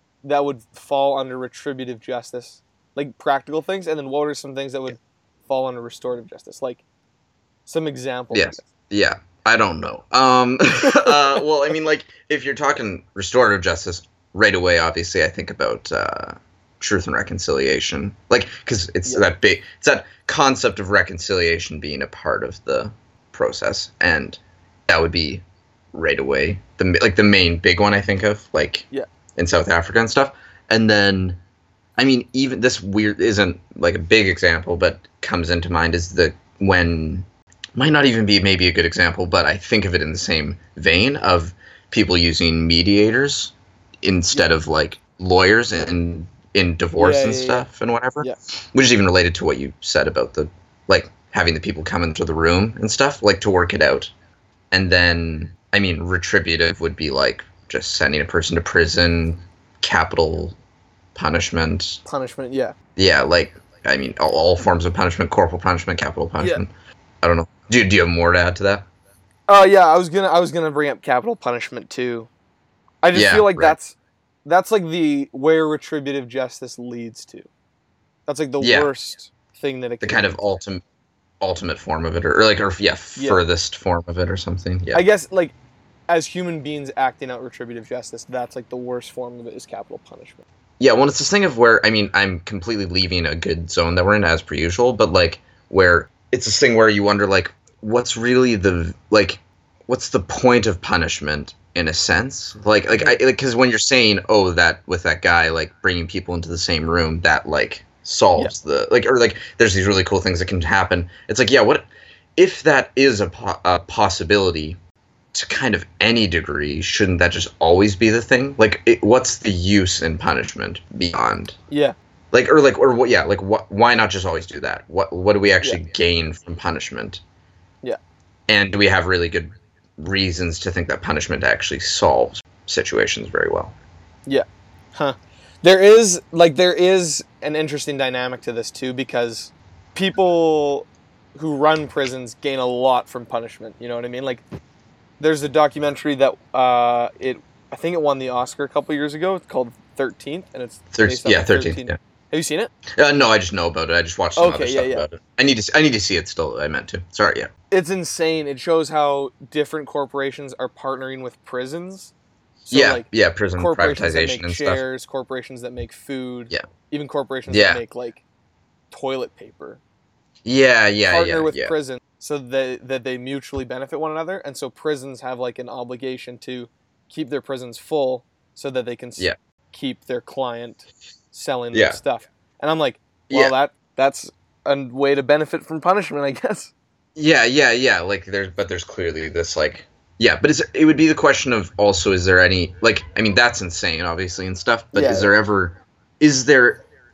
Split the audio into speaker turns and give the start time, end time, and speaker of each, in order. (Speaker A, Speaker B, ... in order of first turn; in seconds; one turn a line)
Speaker A: 0.2-6.8
Speaker A: 7.7-8.7
Speaker B: 8.3-31.4
Speaker B: 32.0-54.1
Speaker A: 47.0-47.6
Speaker B: 54.7-60.6
Speaker B: 61.1-62.0
Speaker A: 62.0-62.8
Speaker B: 63.0-66.7
Speaker B: 67.2-68.8
Speaker A: 69.5-72.3
Speaker A: 73.0-77.5
Speaker B: 73.1-73.8
Speaker A: 78.3-80.4
Speaker B: 78.6-78.9
Speaker B: 80.0-80.8
Speaker B: 81.4-85.0
Speaker A: 83.2-83.4
Speaker A: 84.9-85.5
Speaker A: 86.1-90.4
Speaker B: 90.8-114.8
Speaker A: 102.9-103.2
Speaker B: 115.3-121.5
Speaker A: 121.7-122.0
Speaker B: 122.3-127.2
Speaker B: 128.5-133.7
Speaker A: 134.3-144.4
Speaker A: 145.2-152.7
Speaker B: 150.9-151.9
Speaker B: 153.0-157.5
Speaker A: 154.3-155.0
Speaker A: 157.7-162.1
Speaker A: 162.6-163.1
Speaker B: 162.7-164.8
Speaker A: 163.6-168.2
Speaker B: 167.5-167.8
Speaker A: 168.9-169.8
Speaker B: 170.4-171.7
Speaker A: 171.0-186.7
Speaker B: 181.7-182.0
Speaker B: 187.1-196.8
Speaker A: 194.9-195.3